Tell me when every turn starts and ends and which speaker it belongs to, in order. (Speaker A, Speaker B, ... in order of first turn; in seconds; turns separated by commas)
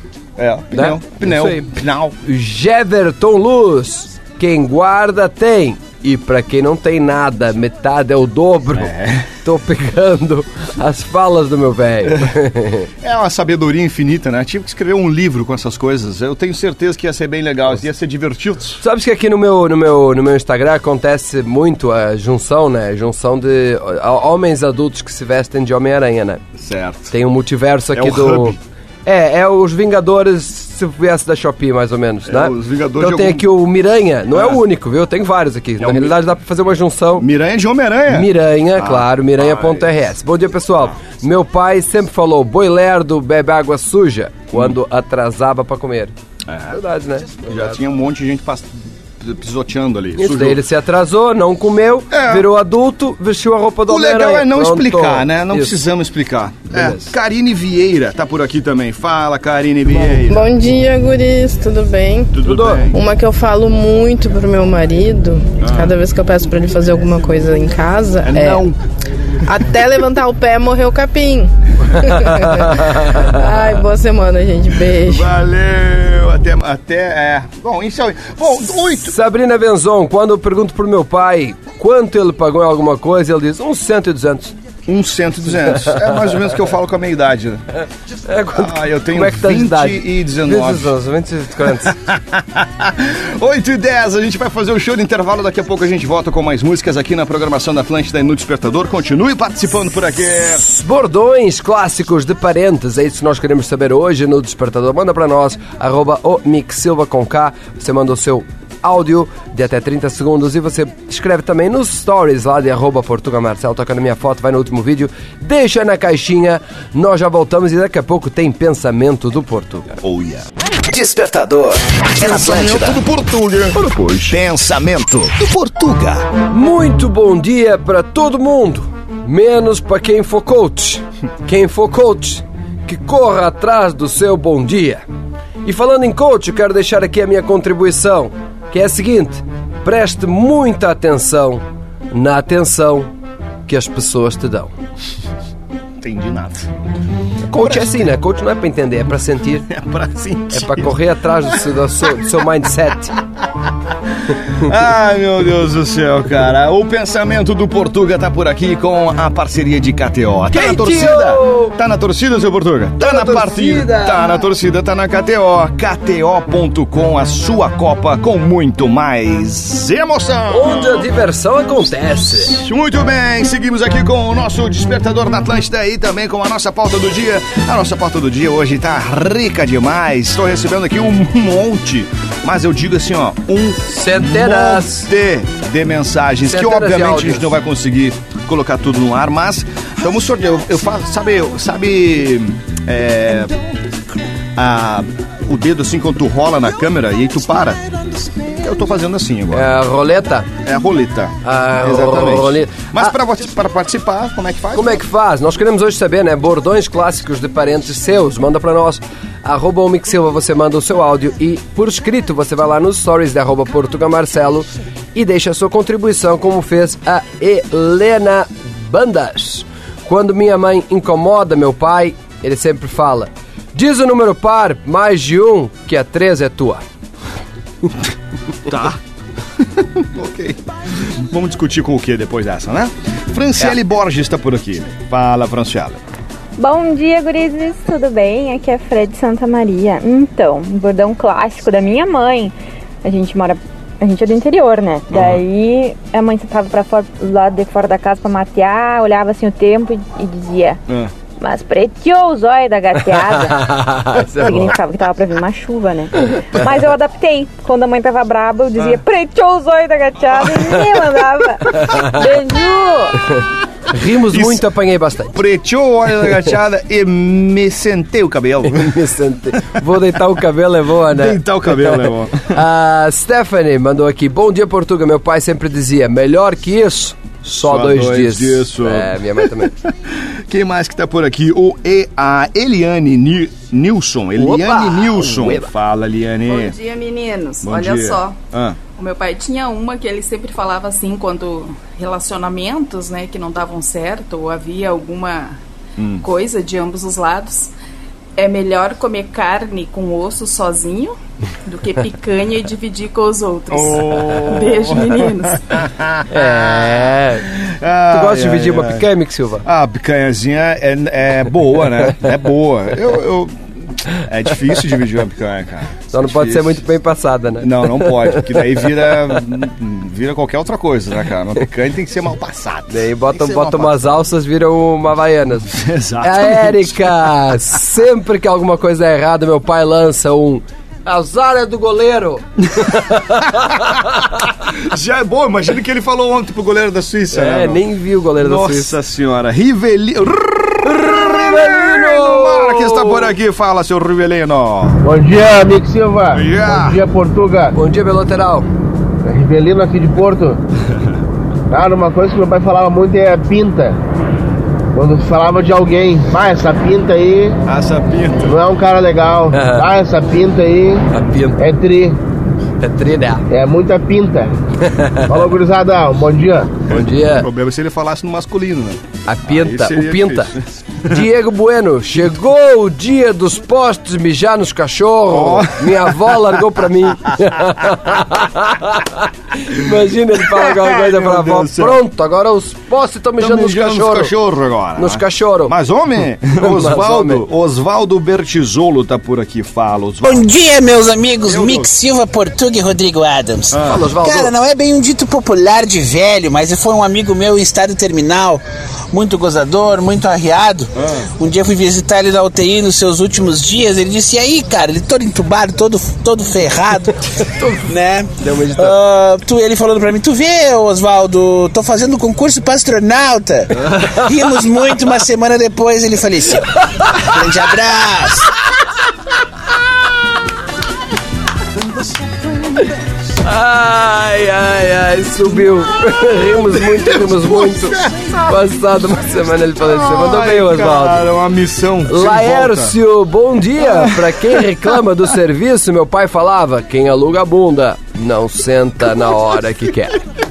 Speaker A: 0.4-2.1, Speaker B: 0.7-1.7, Speaker B: 2.2-8.9, Speaker A: 8.7-9.3, Speaker B: 9.4-12.9, Speaker A: 12.1-12.3, Speaker A: 13.0-18.8, Speaker B: 18.8-26.4, Speaker A: 26.6-27.1, Speaker B: 27.1-37.2, Speaker A: 27.9-28.6, Speaker A: 32.2-33.5, Speaker A: 34.3-34.6, Speaker A: 35.8-36.2, Speaker A: 37.2-39.9, Speaker B: 38.1-46.1, Speaker A: 46.5-46.8, Speaker B: 46.7-47.8, Speaker A: 47.4-50.6, Speaker B: 50.2-55.7, Speaker A: 52.1-52.5, Speaker A: 53.9-60.5, Speaker B: 56.7-57.1, Speaker C: 60.3-62.3, Speaker A: 62.3-63.0, Speaker B: 62.4-62.9, Speaker C: 62.9-68.7, Speaker A: 65.6-65.9, Speaker A: 68.2-68.8, Speaker C: 69.5-75.3, Speaker B: 71.9-73.4, Speaker A: 75.0-79.2, Speaker B: 78.9-84.5, Speaker A: 84.9-87.6, Speaker B: 85.7-86.3, Speaker B: 88.3-91.9, Speaker A: 88.5-90.9, Speaker A: 91.8-100.6, Speaker B: 100.4-119.9, Speaker A: 120.0-126.3, Speaker B: 123.9-124.2, Speaker B: 126.5-135.0, Speaker B: 135.6-143.1, Speaker B: 143.7-144.7, Speaker A: 146.0-146.7, Speaker B: 147.5-149.7, Speaker A: 147.5-148.1, Speaker A: 149.7-151.0, Speaker B: 150.5-153.1, Speaker A: 154.3-171.1, Speaker B: 160.5-161.7, Speaker B: 163.0-164.4, Speaker B: 170.5-172.5, Speaker A: 172.3-193.6, Speaker B: 183.8-185.1, Speaker B: 186.5-187.5, Speaker A: 194.6-199.7, Speaker B: 199.5-200.5, Speaker A: 200.6-205.0, Speaker B: 201.4-203.1, Speaker B: 204.7-226.8, Speaker A: 228.7-229.0, Speaker A: 229.8-236.0, Speaker D: 236.6-250.8, Speaker A: 245.1-245.4, Speaker D: 251.4-253.7, Speaker B: 253.1-254.8, Speaker D: 254.4-263.2, Speaker B: 261.7-262.3, Speaker B: 263.9-265.4, Speaker A: 264.3-264.6, Speaker A: 265.3-268.9, Speaker B: 268.6-279.7, Speaker A: 271.1-272.5, Speaker A: 277.6-286.7, Speaker B: 284.4-285.7, Speaker E: 286.5-288.4, Speaker A: 287.6-288.8, Speaker E: 288.9-295.6, Speaker A: 296.0-296.3, Speaker E: 296.2-297.7, Speaker E: 298.4-301.1, Speaker E: 301.6-305.6, Speaker A: 303.7-309.1, Speaker B: 306.3-307.5, Speaker B: 308.1-309.6, Speaker A: 309.6-316.8, Speaker B: 316.1-319.1, Speaker A: 317.6-324.1, Speaker B: 322.9-334.2, Speaker A: 325.7-327.2, Speaker A: 332.8-333.9, Speaker A: 334.6-337.8, Speaker B: 337.3-338.9, Speaker A: 338.4-345.0, Speaker B: 340.9-343.3, Speaker F: 345.0-347.8, Speaker A: 346.3-347.0, Speaker B: 347.7-348.7, Speaker F: 349.2-350.6, Speaker F: 351.7-354.0, Speaker F: 354.9-357.5, Speaker A: 357.7-358.6, Speaker F: 358.4-361.0, Speaker B: 359.5-359.9, Speaker B: 361.1-361.6, Speaker F: 361.6-362.2, Speaker B: 362.8-363.4, Speaker F: 363.5-364.5, Speaker B: 364.8-365.2, Speaker F: 365.3-366.7, Speaker B: 366.9-367.5, Speaker A: 366.9-371.2, Speaker B: 369.2-370.5, Speaker B: 371.0-384.3, Speaker A: 375.3-376.8, Speaker A: 380.3-382.0, Speaker A: 383.4-390.4, Speaker B: 384.9-385.7, Speaker B: 386.6-387.4, Speaker G: 390.2-407.1, Speaker A: 391.4-391.9, Speaker A: 393.7-394.0, Speaker B: 393.8-394.5, Speaker A: 400.9-401.3, Speaker B: 407.4-407.9, Speaker G: 407.8-418.4, Speaker B: 408.4-408.9, Speaker B: 423.4-431.2, Speaker A: 426.7-428.6, Speaker A: 429.7-433.0, Speaker B: 432.1-440.2, Speaker A: 433.8-434.6